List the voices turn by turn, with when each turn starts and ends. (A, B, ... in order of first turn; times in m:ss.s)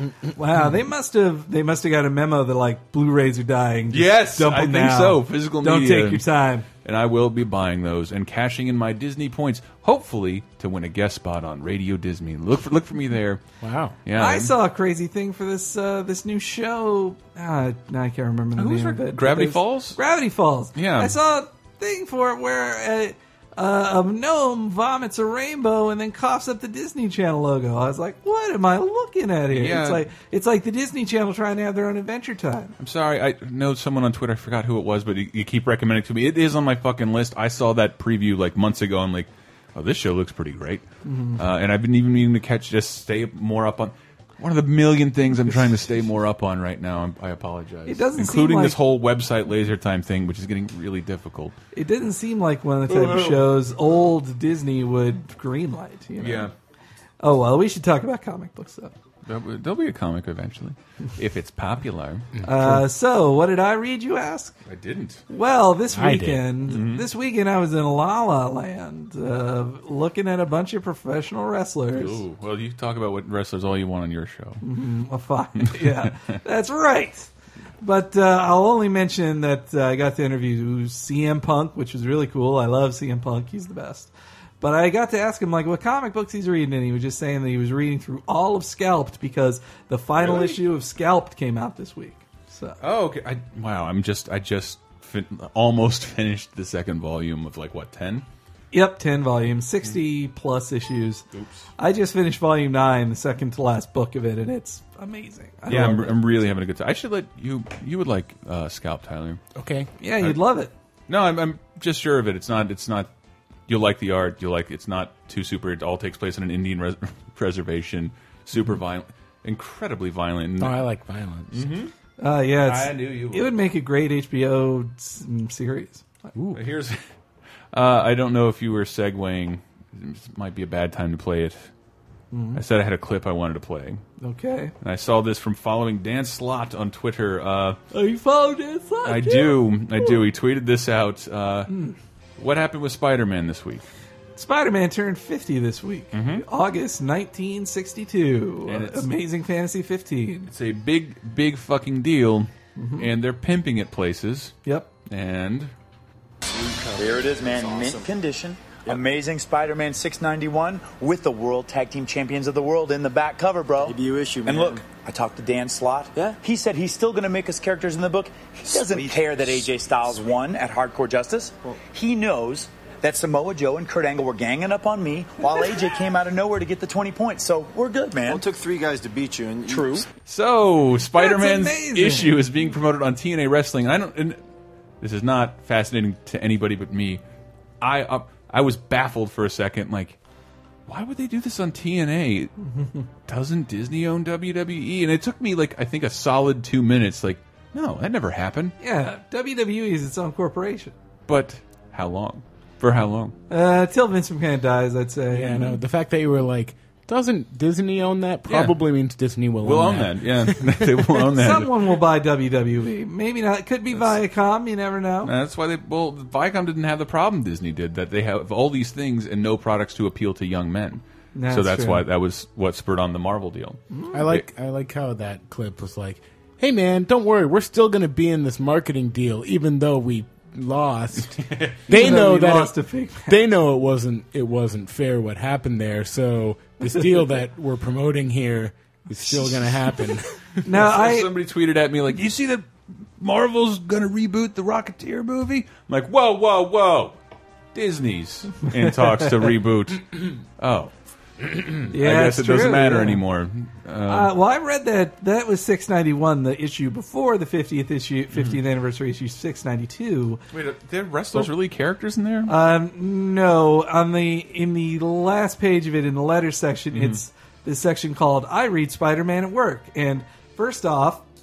0:00.3-0:06.6 A
0:03.9-0:06.2 B
0:06.8-0:13.4 B
0:13.6-0:14.0 C
0:14.0-0:14.5 B
0:14.1-0:32.8 A
0:18.6-0:20.0 B
0:20.8-0:21.2 B
0:29.5-0:30.0 B
0:32.8-0:40.8 B
0:41.0-0:41.4 A
0:41.4-0:51.5 B
0:47.9-0:48.8 A
0:51.7-0:56.5 A
0:52.9-0:53.5 B
0:56.2-0:56.5 B
0:57.2-0:58.9 A
0:59.3-1:02.3 B
1:02.4-1:02.8 C
1:02.4-1:04.6 A
1:04.6-1:05.2 B
1:05.3-1:12.2 A
1:05.9-1:06.5 C
1:06.7-1:07.0 B
1:11.9-1:14.6 B
1:14.6-1:17.3 A
1:15.6-1:16.3 B
1:17.8-1:32.8 A
1:30.2-1:30.6 B
1:32.8-1:38.2 B
1:38.7-1:41.2 A
1:41.3-1:41.6 B
1:41.8-1:46.1 A
1:45.7-1:49.4 B
1:49.5-1:49.9 C
1:50.0-1:50.7 A
1:51.1-1:53.1 B
1:53.7-2:00.7 B
2:00.6-2:01.7 C
2:01.5-2:01.9 B
2:02.2-2:06.3 A
2:02.6-2:03.5 B
2:06.3-2:06.6 C
2:06.5-2:07.0 B
2:07.7-2:11.7 B
2:12.3-2:12.6 A
2:12.5-2:14.0 B
2:14.2-2:14.7 A
2:14.8-2:17.8 B
2:17.9-2:20.1 A
2:19.0-2:21.7 B
2:21.7-2:22.0 A
2:22.4-2:23.8 B
2:24.4-2:30.5 A
2:26.1-2:26.4 B
2:28.6-2:29.1 B
2:30.5-2:35.7 B
2:32.8-2:33.1 A
2:36.4-2:38.1 D
2:37.0-2:58.4 E
2:43.8-2:44.8 D
2:48.8-2:49.2 D
2:58.2-3:00.0 D
2:59.7-3:00.0 E
3:00.2-3:04.4 B
3:01.2-3:02.4 A
3:05.0-3:07.2 B
3:07.8-3:10.2 B
3:10.9-3:12.5 B
3:12.7-3:13.0 A
3:13.3-3:18.7 B
3:18.8-3:20.9 A
3:21.3-3:23.3 B
3:23.5-3:25.8 A
3:25.3-3:31.3 C
3:28.5-3:28.8 B
3:29.6-3:31.7 B
3:31.4-3:35.3 A
3:35.2-3:44.4 B
3:41.3-3:42.0 A
3:43.9-3:44.2 A
3:44.1-4:00.7 C
3:51.4-3:52.1 B
3:51.9-3:53.4 A
4:00.6-4:01.3 A
4:00.7-4:07.2 B
4:07.7-4:10.9 B
4:08.6-4:09.2 A
4:11.7-4:14.3 B
4:11.9-4:13.2 A
4:14.1-4:20.4 A
4:18.3-4:18.6 B
4:20.5-4:22.5 B
4:22.5-4:31.2 A
4:26.9-4:27.2 B